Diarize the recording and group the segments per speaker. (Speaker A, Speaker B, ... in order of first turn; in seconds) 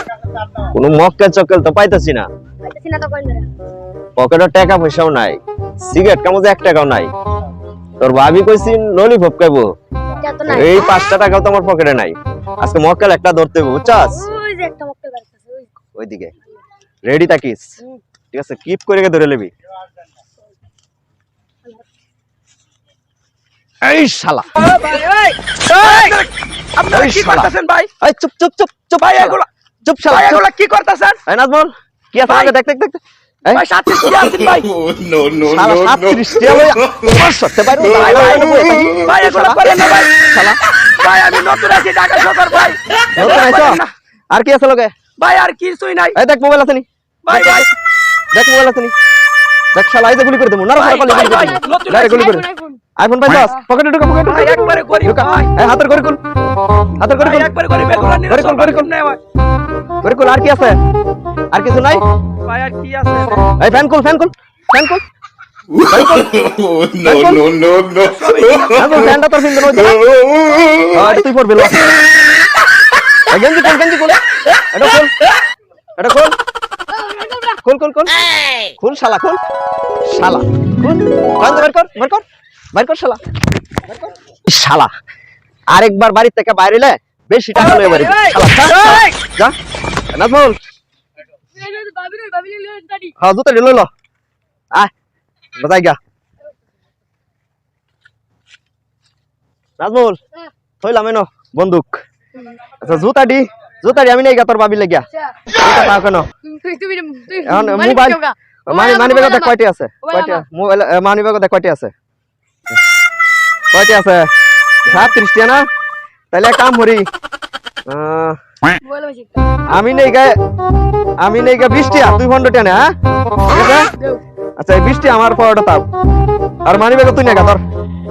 Speaker A: 0.7-2.2, 4.2-7.1, 8.0-9.6, 10.5-14.3, 15.9-16.3, 17.1-17.8, 18.3-19.5, 23.8-24.5, 26.9-27.5, 28.0-30.4, 31.3-33.6, 35.5-40.6, 43.1-44.9, 46.1-47.7, 48.3-48.9, 49.7-56.2, 56.9-57.5, 58.3-58.9, 60.0-60.8, 61.5-62.0, 63.6-65.0, 65.8-66.4, 67.0-67.4, 68.8-70.0, 70.9-71.8, 73.3-75.1, 76.0-76.3, 77.6-78.1, 78.8-79.4, 80.1-83.2, 84.5-84.9, 85.7-89.5, 90.1-90.6, 93.2-93.9, 95.6-96.0, 99.8-100.2, 100.8-102.0, 102.8-105.1, 105.6-106.3, 107.4-111.9, 113.7-114.3, 114.8-115.7, 116.3-117.0, 117.9-118.4, 119.7-120.3, 121.2-122.8, 123.5-123.9, 124.6-125.9, 126.6-127.6
Speaker B: 2.6-3.5, 10.2-10.9, 13.9-15.7, 52.3-52.8, 77.1-77.4, 88.0-88.3, 91.5-93.1, 102.4-102.7, 106.4-110.4, 118.8-119.6
Speaker C: 24.6-27.9, 29.0-29.5, 30.1-31.2, 32.2-32.5, 33.5-34.7, 37.8-38.5, 39.0-40.1, 41.0-43.9, 45.2-46.1, 47.2-47.7, 50.8-52.4, 54.3-55.5, 57.1-59.2, 62.4-63.5, 68.0-69.1
Speaker D: 34.0-37.2, 38.4-38.9, 65.7-69.1, 69.7-71.0